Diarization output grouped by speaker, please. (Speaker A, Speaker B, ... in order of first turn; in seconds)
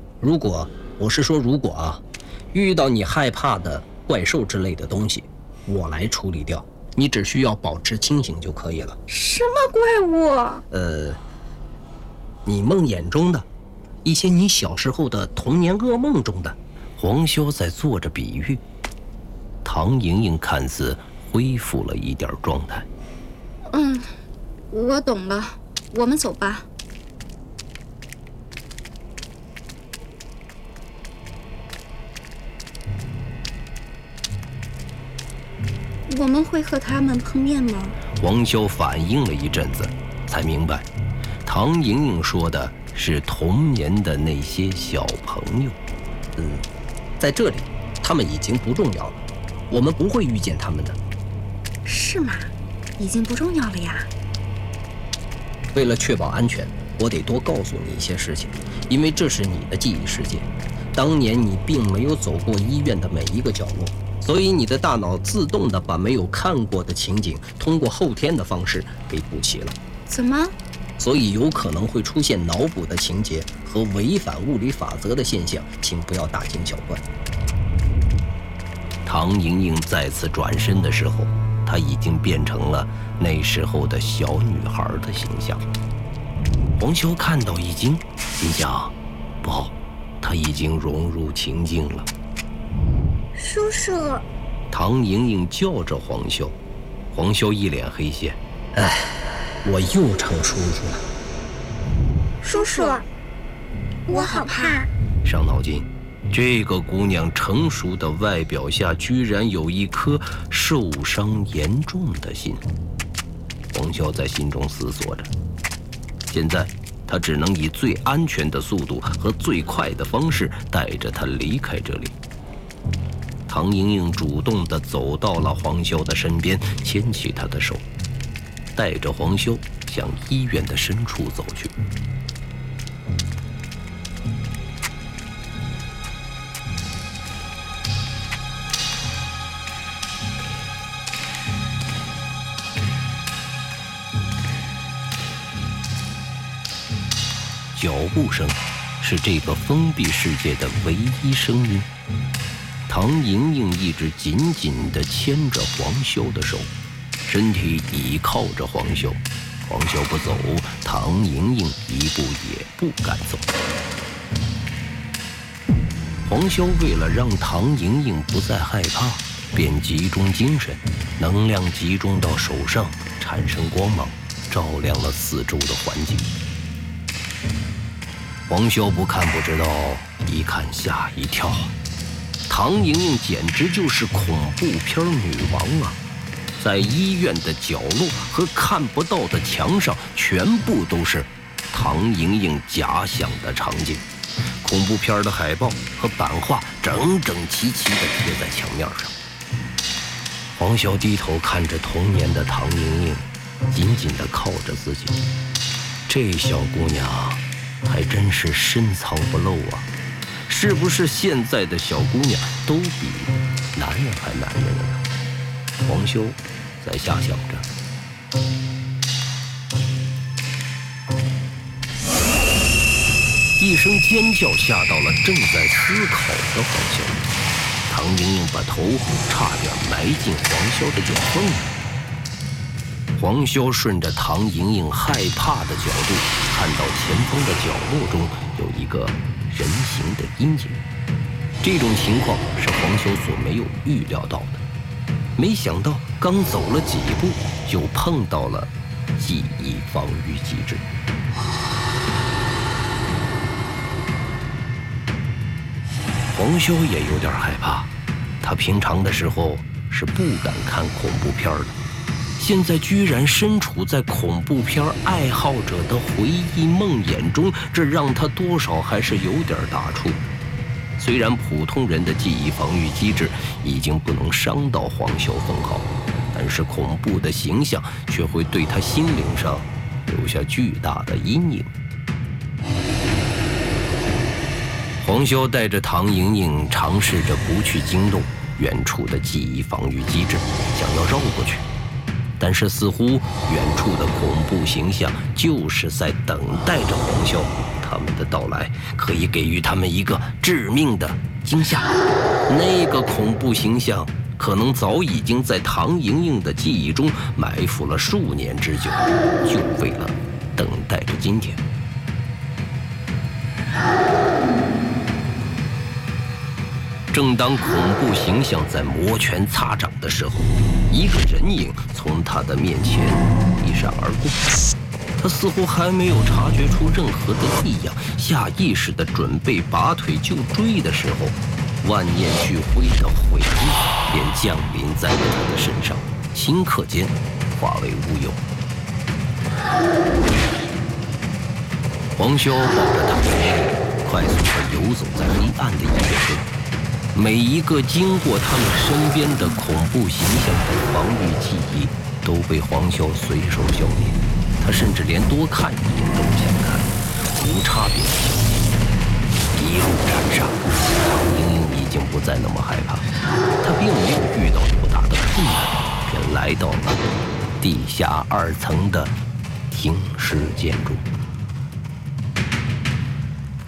Speaker A: 0.2-9.0, 10.7-11.2, 12.4-13.5, 14.0-16.6, 46.4-46.6, 47.2-51.0, 55.7-69.8, 71.0-77.0, 98.8-99.1, 99.6-101.0
Speaker B: 9.1-10.6, 23.7-24.1, 24.7-26.7, 36.1-38.0, 51.9-54.1, 70.1-70.5, 102.4-103.0, 104.1-104.9
Speaker C: 17.0-18.6, 19.6-22.9, 38.2-40.9, 41.5-45.8, 79.0-85.7, 86.8-92.1, 94.7-96.6, 97.1-98.4, 105.2-112.6, 113.7-115.3, 116.3-122.2, 123.5-127.8, 128.8-131.7, 147.7-151.9, 152.9-156.7, 157.3-163.5, 166.3-176.3, 178.5-181.7, 182.5-186.0, 186.6-194.0, 194.6-199.1, 200.6-205.2, 206.1-209.9, 210.5-215.0, 215.8-217.7, 223.6-227.3, 227.9-231.7, 233.2-240.8, 241.6-244.6, 245.4-250.9, 256.3-257.9, 258.4-261.8, 262.4-270.2, 271.0-281.7, 285.0-291.6, 292.4-311.6, 317.1-324.4, 325.2-338.4, 342.1-346.5, 347.1-358.5, 359.5-363.1, 363.6-367.0, 367.6-369.1, 369.7-371.1
Speaker D: 93.3-94.2, 102.5-103.1, 104.1-104.9